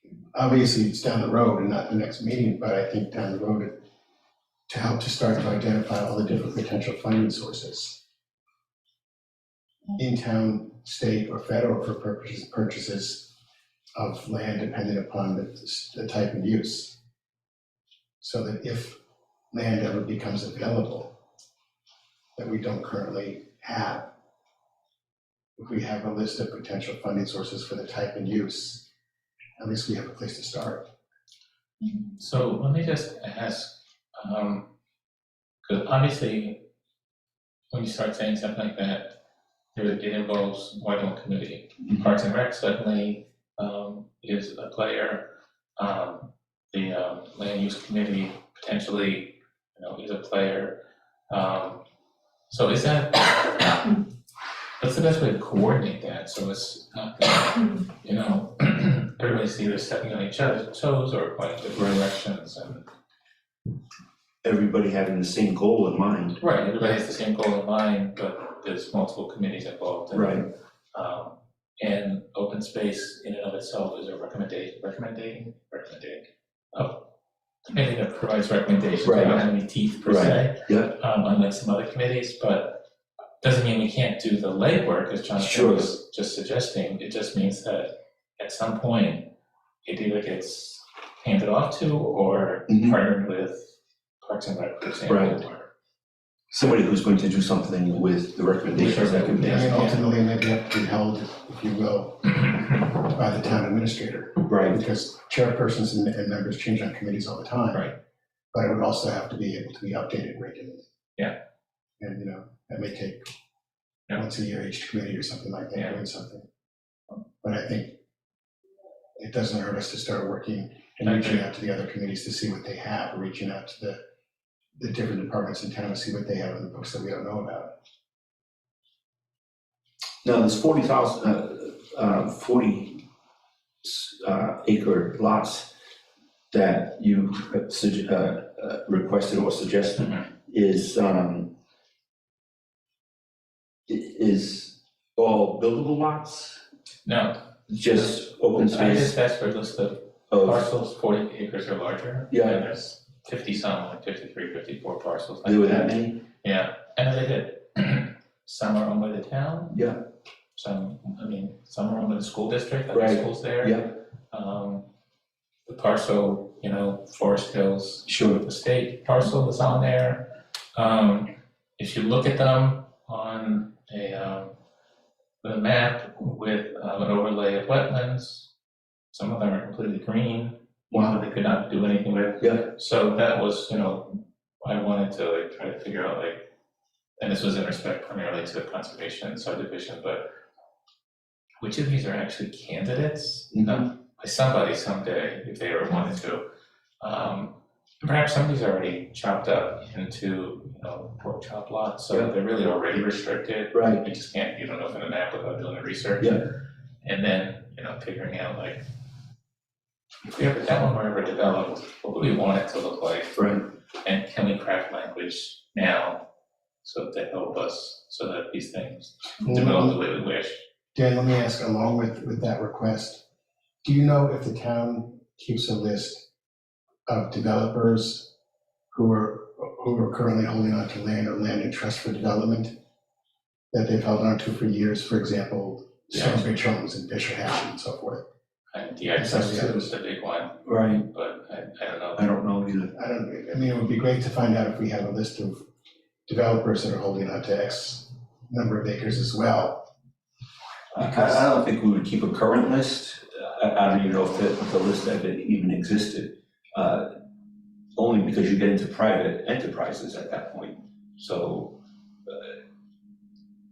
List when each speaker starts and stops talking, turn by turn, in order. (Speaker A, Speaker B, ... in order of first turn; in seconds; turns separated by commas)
Speaker A: 0.3-3.7, Speaker A: 4.7-8.0, Speaker A: 9.9-13.3, Speaker A: 13.9-16.9, Speaker A: 18.2-19.0, Speaker A: 19.5-21.1, Speaker A: 22.4-24.0, Speaker A: 25.6-28.8, Speaker A: 29.6-30.8, Speaker B: 32.1-34.6, Speaker B: 35.6-36.6, Speaker B: 37.7-39.1, Speaker B: 39.7-45.2, Speaker B: 45.8-50.8, Speaker B: 51.3-51.8, Speaker B: 52.5-54.0, Speaker B: 54.8-62.9, Speaker C: 64.4-66.4, Speaker B: 66.4-77.0, Speaker C: 70.1-70.4, Speaker B: 77.7-82.8, Speaker C: 79.0-79.5, Speaker C: 80.0-80.9, Speaker B: 83.4-89.3, Speaker C: 85.4-86.0, Speaker B: 89.8-95.7, Speaker C: 92.7-92.9, Speaker C: 95.1-95.4, Speaker C: 96.5-99.7, Speaker B: 98.7-100.0, Speaker A: 99.4-107.9, Speaker C: 104.5-104.8, Speaker A: 108.5-110.8, Speaker A: 112.0-113.2, Speaker A: 114.1-116.4, Speaker A: 117.4-117.9, Speaker A: 119.2-124.0, Speaker B: 121.0-121.4, Speaker A: 124.8-127.7, Speaker C: 130.2-133.0, Speaker C: 133.8-135.7, Speaker C: 136.5-141.5, Speaker B: 140.0-140.2, Speaker C: 143.9-146.6, Speaker B: 147.0-147.4, Speaker C: 147.7-149.1, Speaker B: 148.0-159.8, Speaker C: 150.3-150.7, Speaker C: 152.3-152.6, Speaker C: 155.4-156.2, Speaker C: 159.7-160.0, Speaker B: 160.6-164.8, Speaker C: 162.9-163.9, Speaker B: 165.7-174.5, Speaker C: 168.1-168.4, Speaker B: 175.4-178.5, Speaker B: 179.1-186.4, Speaker C: 182.4-182.7, Speaker B: 187.2-190.2, Speaker B: 191.6-196.4, Speaker C: 193.5-193.8, Speaker B: 197.0-206.5, Speaker C: 203.7-204.0, Speaker B: 207.0-208.8, Speaker B: 210.3-216.2, Speaker C: 213.3-213.6, Speaker B: 216.8-220.6, Speaker A: 219.4-219.9, Speaker A: 220.9-223.2, Speaker A: 223.8-226.2, Speaker A: 227.1-228.3, Speaker A: 228.9-232.7, Speaker A: 233.7-238.2, Speaker B: 236.1-236.4, Speaker B: 238.7-242.3, Speaker A: 239.2-239.9, Speaker C: 240.6-241.1, Speaker C: 242.2-242.9, Speaker A: 242.9-245.6, Speaker A: 246.3-249.8, Speaker C: 250.9-257.1, Speaker A: 251.0-251.4, Speaker C: 257.9-262.6